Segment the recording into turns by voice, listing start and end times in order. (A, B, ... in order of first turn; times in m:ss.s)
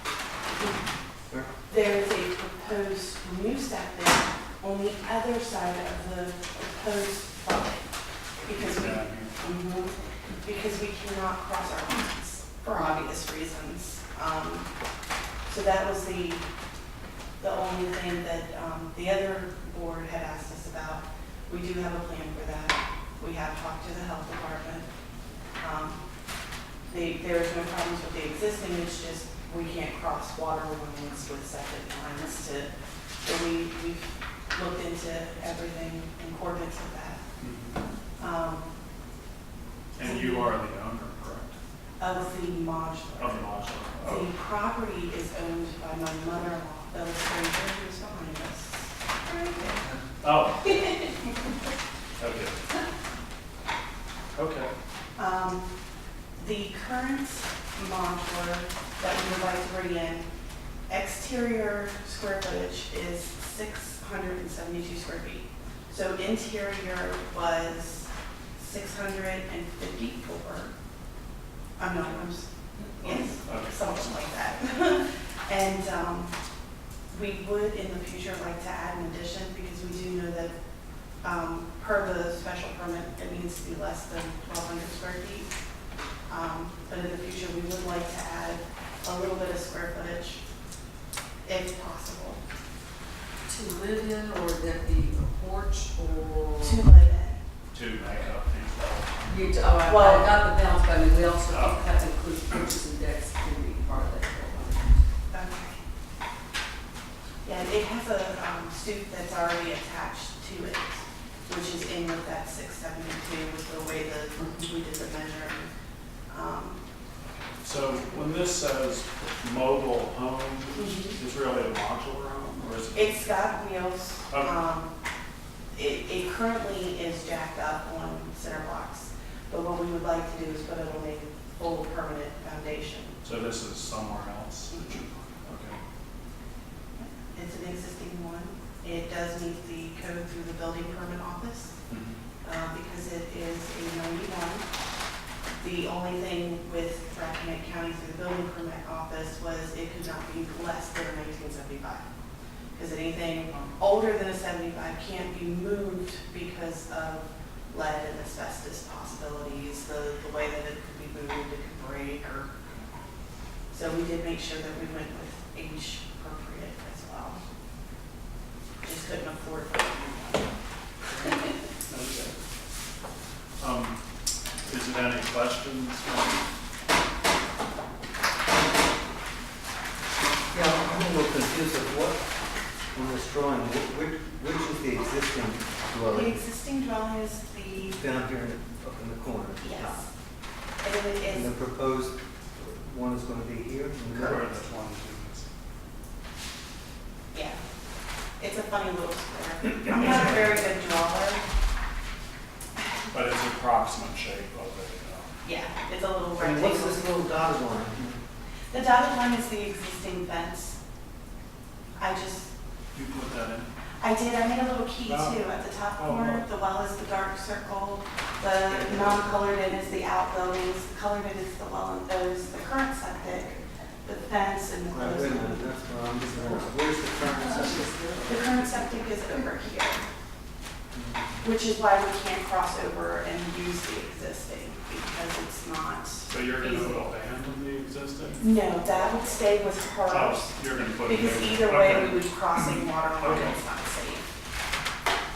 0:01.7-0:07.9 A
0:08.4-0:14.7 A
0:08.5-0:09.6 B
0:15.5-0:16.5 A
0:17.4-0:24.9 A
0:25.6-0:26.0 A
0:26.9-0:32.7 A
0:33.2-0:37.2 A
0:37.4-0:37.8 B
0:38.2-0:38.7 A
0:40.0-0:41.6 B
0:40.0-0:40.5 A
0:42.0-0:43.5 A
0:43.2-0:44.3 B
0:44.0-0:49.9 A
0:50.2-0:50.9 B
0:52.2-0:52.6 B
0:54.4-0:54.7 B
0:55.2-0:55.7 A
0:56.4-1:00.3 A
1:00.9-1:10.7 A
1:11.8-1:16.3 A
1:13.0-1:14.2 B
1:17.1-1:20.5 A
1:21.2-1:25.5 A
1:26.3-1:30.4 A
1:31.4-1:32.4 A
1:33.4-1:36.9 C
1:36.6-1:37.4 A
1:37.7-1:39.6 B
1:39.3-1:45.0 C
1:39.8-1:40.4 A
1:41.4-1:41.9 B
1:45.3-1:45.8 A
1:47.4-1:55.7 A
1:56.3-1:56.8 A
1:57.6-2:03.3 B
2:00.8-2:01.2 A
2:02.9-2:04.9 A
2:05.7-2:13.2 A
2:13.2-2:15.8 B
2:14.7-2:15.0 A
2:17.0-2:21.8 A
2:21.9-2:22.2 B
2:22.4-2:24.7 A
2:25.6-2:32.0 A
2:32.8-2:42.5 A
2:43.7-2:47.4 A
2:48.8-2:50.5 A
2:51.1-2:52.4 B
2:53.6-2:54.0 B
2:54.6-2:56.4 B
3:00.5-3:02.2 D
3:02.9-3:06.4 D
3:06.1-3:08.0 A
3:08.0-3:10.0 D
3:09.6-3:10.1 A
3:10.8-3:11.5 A
3:11.3-3:14.5 D
3:14.1-3:15.5 B
3:17.3-3:17.6 A
3:18.4-3:21.4 A
3:23.1-3:25.3 B
3:25.4-3:27.1 A
3:26.4-3:28.2 D
3:28.7-3:30.8 A
3:32.0-3:32.5 A
3:32.9-3:33.7 B
3:34.0-3:45.7 A
3:35.1-3:36.4 B
3:38.7-3:39.4 D
3:44.9-3:48.5 D
3:48.3-3:50.0 A
3:51.0-3:51.2 B
3:51.4-3:57.1 A
3:56.3-3:58.6 B
3:58.4-4:00.5 A
4:00.0-4:03.6 B
4:01.0-4:04.3 A